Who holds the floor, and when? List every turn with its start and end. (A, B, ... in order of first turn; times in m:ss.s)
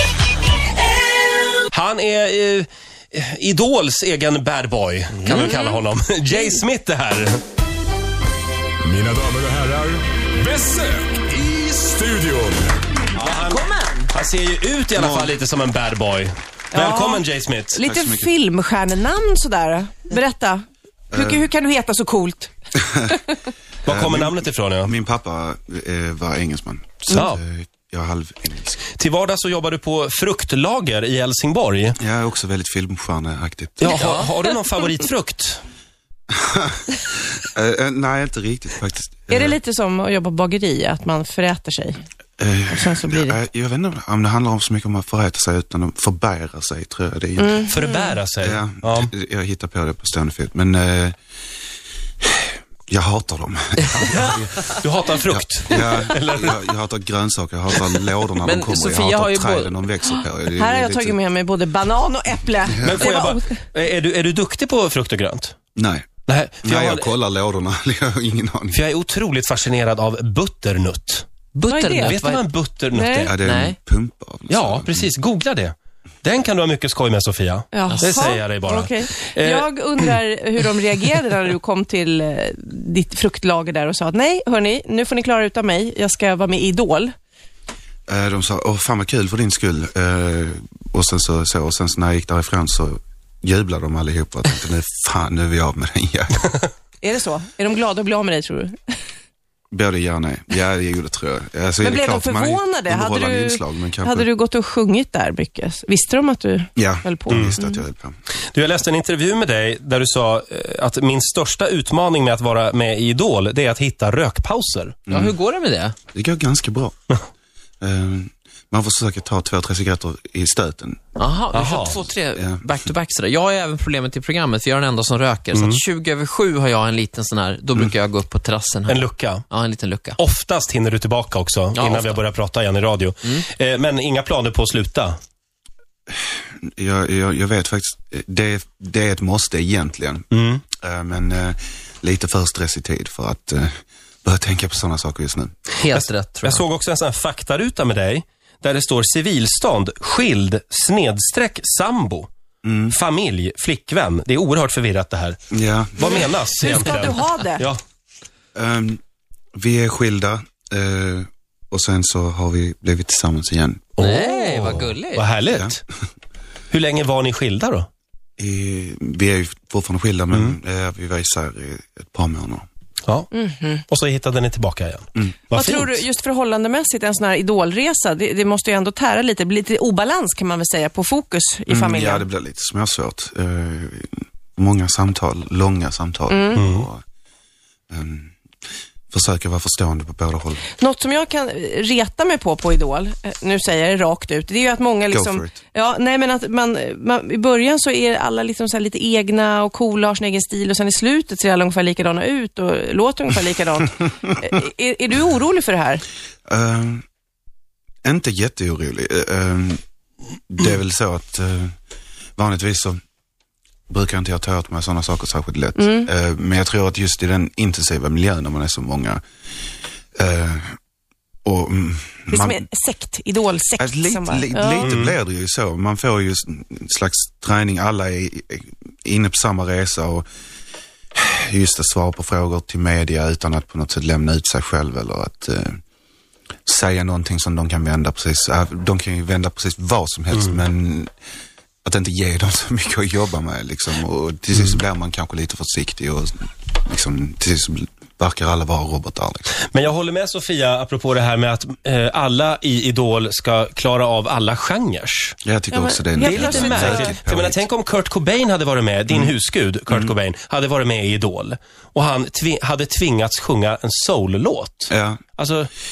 0:01.7-0:07.4 A
0:05.2-0:05.5 B
0:05.3-0:05.7 C
0:08.8-0:12.8 D
0:13.2-0:17.8 A
0:13.5-0:13.9 C
0:14.9-0:15.4 E
0:16.7-0:22.5 C
0:17.8-0:18.3 E
0:21.1-0:21.5 E
0:22.9-0:23.2 E
0:23.8-0:24.9 A
0:23.9-0:28.8 E
0:27.1-0:27.4 A
0:28.9-0:32.0 A
0:32.0-0:34.0 E
0:33.8-0:35.6 A
0:33.9-0:34.3 B
0:36.3-0:39.6 E
0:39.3-0:42.0 C
0:42.4-0:47.7 E
0:42.7-0:43.4 C
0:47.4-0:48.2 C
0:47.7-0:49.1 A
0:48.4-0:51.2 E
0:52.2-0:54.7 E
0:54.1-0:56.6 A
0:55.2-1:01.2 E
0:58.4-1:00.1 B
1:00.6-1:03.5 C
1:02.6-1:03.1 E
1:02.8-1:05.5 A
1:05.8-1:06.1 E
1:06.2-1:07.1 A
1:06.6-1:08.8 E
1:08.7-1:11.3 A
1:11.5-1:12.4 B
1:11.7-1:12.2 C
1:12.0-1:13.4 A
1:12.9-1:13.3 C
1:13.2-1:15.1 E
1:13.4-1:13.8 B
1:14.5-1:19.7 A
1:17.7-1:27.1 C
1:28.1-1:36.5 E
1:37.0-1:38.7 C
1:39.7-1:44.3 E
1:41.8-1:47.8 C
1:46.8-1:48.2 E
1:47.3-1:47.6 A
1:48.5-1:55.0 A
1:55.1-1:55.4 E
1:55.1-1:55.9 B
1:56.1-1:56.9 E
1:57.8-2:01.0 E
2:01.2-2:10.2 B
2:01.5-2:02.1 A
2:02.4-2:02.7 E
2:05.5-2:05.8 A
2:08.9-2:09.4 A
2:10.2-2:15.2 A
2:11.7-2:12.2 B
2:16.1-2:25.6 E
2:20.3-2:20.6 A
2:25.8-2:26.6 B
2:25.9-2:32.3 A
2:32.6-2:33.0 E
2:32.9-2:35.4 A
2:35.5-2:36.3 E
2:36.0-2:37.8 A
2:36.0-2:37.7 C
2:38.5-2:39.0 E
2:39.5-2:43.9 E
2:44.0-2:45.8 A
2:44.0-2:45.3 B
2:45.5-2:45.8 E
2:46.7-2:47.9 A
2:48.4-2:52.6 E
2:53.3-2:53.8 C
2:53.9-2:56.0 A
2:55.5-3:02.2 C
3:01.7-3:07.0 E
3:06.3-3:06.6 C
3:06.5-3:06.9 A
3:07.9-3:08.3 E
3:09.1-3:10.6 E
3:10.8-3:26.0 C
3:15.1-3:15.6 E
3:26.5-3:27.0 E
3:28.0-3:29.8 E
3:30.5-3:31.7 E
3:32.4-3:33.0 E
3:33.9-3:39.2 E
3:35.8-3:36.1 C
3:40.2-3:40.7 E
3:41.4-3:42.6 E
3:42.3-3:44.9 C
3:43.8-3:50.2 E
3:44.8-3:45.2 A
3:51.1-3:55.8 E
3:56.6-4:01.1 E
4:01.8-4:09.5 E
4:09.6-4:15.4 A
4:15.4-4:17.6 E
4:15.7-4:17.2 C
4:16.2-4:25.7 A
4:19.9-4:20.1 E
4:24.9-4:25.2 E